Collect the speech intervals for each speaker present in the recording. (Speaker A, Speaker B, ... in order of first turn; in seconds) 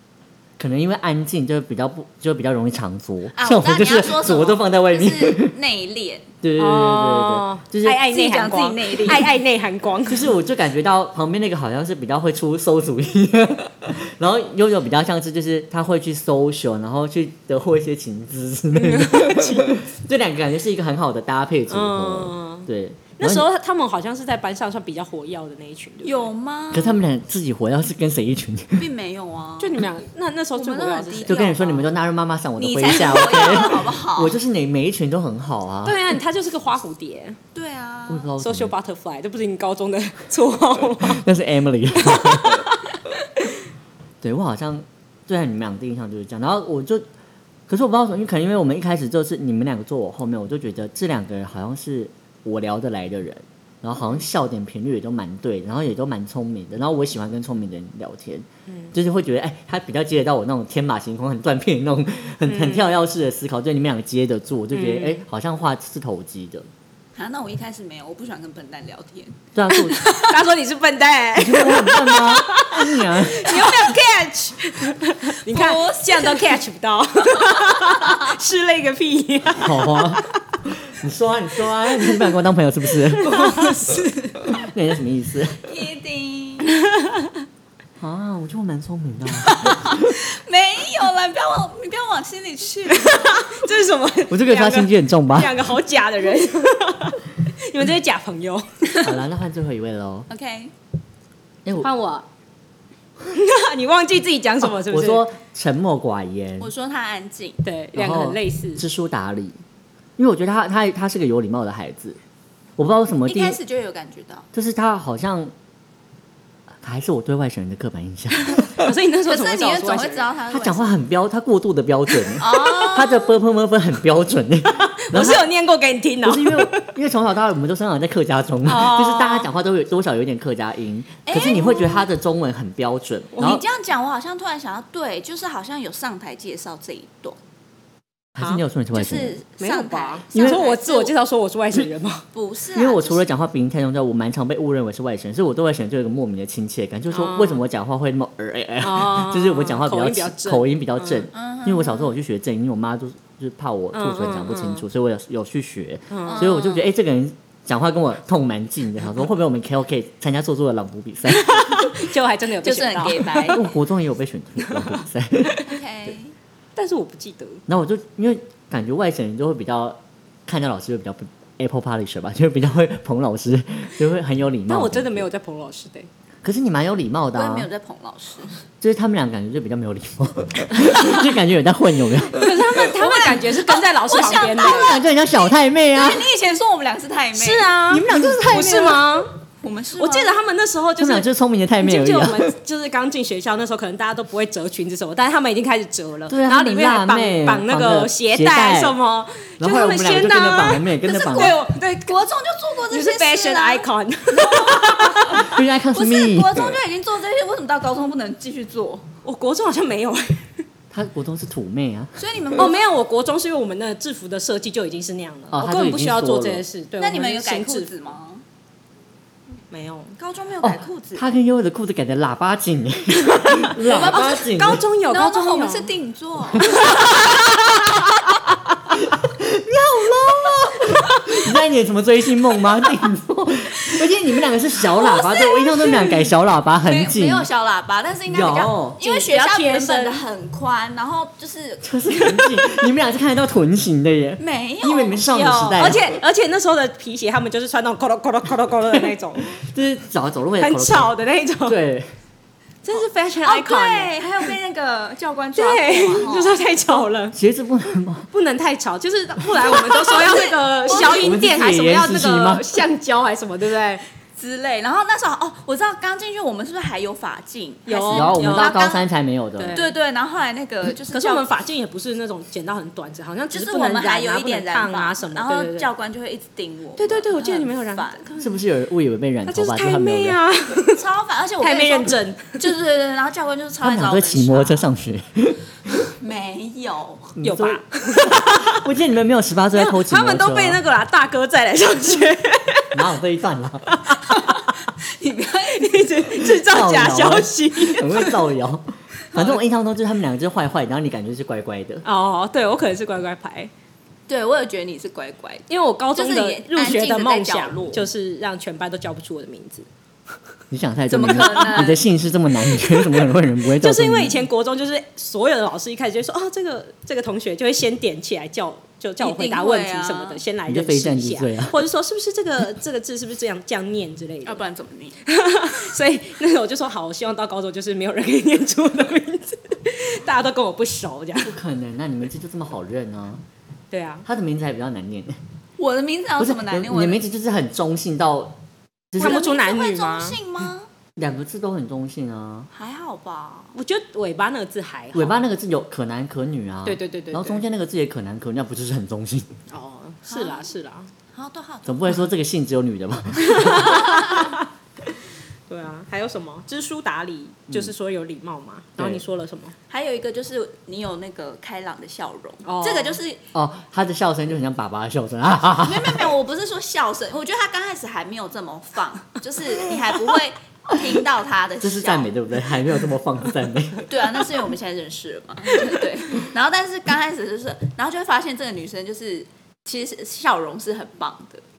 Speaker A: 0.6-5.5, 6.4-8.0, 10.1-23.4, 26.7-28.9, 31.3-36.0, 38.1-38.7, 41.0-42.6, 44.2-47.0, 47.7-66.7, 69.5-70.1, 71.4-73.6, 79.5-83.3, 84.5-85.7, 88.0-90.1, 94.3-95.5, 99.0-100.3, 101.7-101.9, 104.6-106.7, 108.0-109.6, 110.2-112.2, 112.8-113.6, 114.5-115.5, 116.8-118.8, 120.5-125.5, 126.2-133.6, 138.4-139.4, 140.3-140.6, 142.8-161.5, 163.5-165.6, 167.7-175.3, 176.4-177.7, 178.8-182.5, 184.6-186.2, 187.9-189.1, 191.0-192.5, 196.3-199.0, 199.6-201.6, 205.3-206.8, 210.9-212.2, 215.5-216.7, 220.6-224.8, 226.7-227.0, 228.9-237.5, 238.3-239.0, 241.8-246.2, 249.5-251.1, 251.7-252.1, 257.3-258.3, 260.9-262.7, 268.1-269.8, 278.4-280.4, 283.8-285.6, 287.4-290.8, 292.9-294.0, 296.7-302.1, 310.7-314.4, 320.7-321.8, 331.4-333.4, 334.2-335.4, 336.4-338.6, 339.1-339.4, 341.2-342.7, 345.1-349.5, 351.9-354.4, 359.0-359.2, 363.5-366.3, 371.8-374.1
Speaker B: 3.4-6.3, 8.0-9.4, 26.0-27.0, 28.8-29.9, 30.6-31.9, 32.6-34.4, 37.5-38.3, 67.2-69.4, 70.0-70.4, 73.5-74.0, 75.5-76.6, 77.2-78.3, 83.2-84.6, 85.7-86.7, 89.4-93.6, 100.3-100.7, 106.6-107.6, 113.3-114.5, 119.2-120.9, 122.4-123.2, 131.3-132.1, 133.4-137.4, 138.9-141.1, 142.3-143.2, 151.3-152.1, 156.2-156.9, 162.6-163.7, 165.6-166.3, 177.3-178.6, 182.8-187.7, 189.6-190.4, 201.0-209.1, 212.2-212.8, 217.0-218.4, 220.2-221.2, 223.8-227.6, 230.5-231.4, 234.8-236.3, 236.8-241.9, 244.4-246.2, 252.9-257.0, 259.7-261.5, 264.4-269.1, 269.7-271.5, 273.5-278.3, 280.9-284.9, 286.1-287.4, 294.3-296.4, 304.3-308.1, 311.1-312.0, 319.2-320.4, 324.4-325.2, 335.8-337.2, 339.2-340.9, 342.7-343.8, 350.3-350.7, 351.3-351.9, 359.9-363.4, 365.8-372.3, 374.1-381.6
Speaker C: 6.6-10.3, 18.8-19.8, 21.7-26.3, 29.6-31.4, 35.9-37.4, 38.4-41.2, 42.0-43.0, 58.7-58.9, 62.5-62.9, 64.7-65.2, 69.7-80.2, 83.2-84.0, 87.0-87.3, 92.9-99.0, 101.8-102.3, 103.3-105.3, 107.6-108.8, 118.5-120.3, 122.4-123.0, 124.7-126.9, 128.7-129.5, 133.3-133.6, 139.6-142.3, 147.1-147.6, 148.8-151.3, 153.9-154.8, 156.1-156.5, 161.3-163.6, 166.8-167.6, 174.7-176.1, 182.3-184.9, 187.3-189.3, 190.0-191.3, 191.8-202.1, 202.9-205.5, 209.2-210.6, 212.6-217.9, 219.7-220.2, 223.3-225.9, 226.7-227.6, 239.0-240.2, 242.3-242.9, 245.3-249.5, 250.6-251.8, 252.8-254.3, 255.6-257.4, 258.3-264.1, 267.9-268.9, 269.6-269.9, 271.1-275.9, 277.0-278.6, 279.5-281.0, 281.6-282.6, 287.4-288.9, 289.7-293.0, 293.9-294.7, 295.7-298.4, 302.0-303.7, 305.7-309.9, 311.3-311.9, 312.9-313.3, 313.8-324.6, 325.3-331.5, 333.9-334.3, 339.2-340.4, 343.8-345.4, 346.9-347.6, 349.7-351.1, 353.5-354.6, 355.7-359.8, 362.6-363.2